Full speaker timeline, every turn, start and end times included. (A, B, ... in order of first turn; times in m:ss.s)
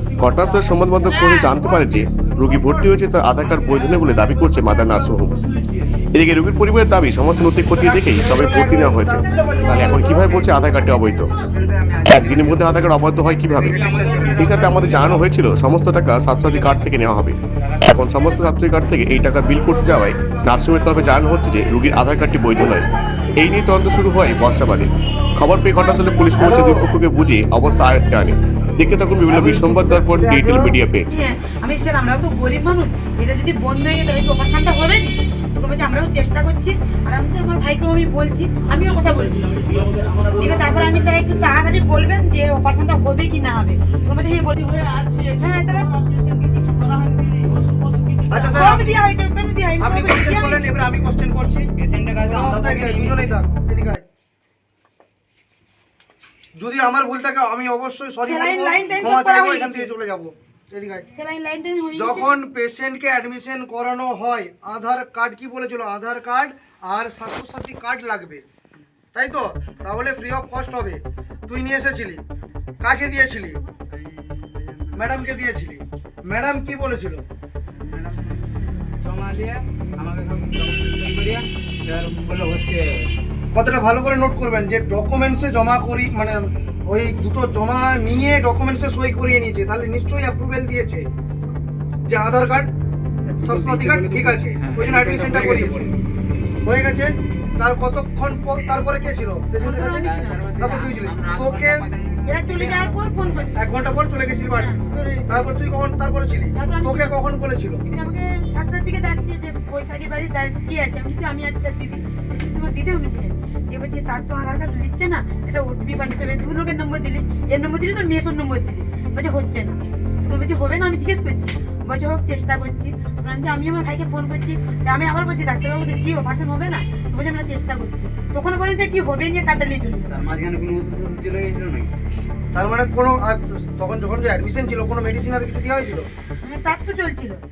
0:00.2-0:05.4 A
0:02.0-0:02.9 B
0:03.6-0:04.4 B
0:06.1-0:11.3 A
0:07.7-0:10.1 B
0:09.9-0:10.6 C
0:11.4-0:12.8 C
0:12.1-0:22.9 A
0:13.5-0:15.2 C
0:23.4-0:31.2 A
0:31.1-0:39.7 D
0:40.2-0:44.8 D
0:44.7-0:45.2 C
0:45.4-0:45.9 D
0:45.9-0:48.3 C
0:48.3-0:49.0 B
0:48.4-0:50.7 D
0:49.8-0:51.7 B
0:51.8-0:53.4 C
0:52.2-0:54.0 B
0:56.6-1:01.1 B
0:58.2-0:59.9 D
1:01.1-1:02.4 D
1:02.0-1:08.4 B
1:09.1-1:12.2 B
1:12.8-1:13.6 B
1:13.9-1:15.4 C
1:15.0-1:17.2 B
1:17.8-1:18.5 C
1:19.0-1:23.1 C
1:23.5-1:31.1 B
1:32.1-1:32.7 B
1:33.3-1:35.9 C
1:33.4-1:35.8 B
1:36.6-1:41.8 B
1:39.6-1:40.5 D
1:39.6-1:43.0 C
1:42.3-1:43.6 D
1:43.6-1:47.8 B
1:44.5-1:45.5 D
1:46.6-1:47.2 D
1:47.9-2:10.2 D
2:10.1-2:11.9 C
2:12.5-2:16.1 B
2:16.4-2:17.4 D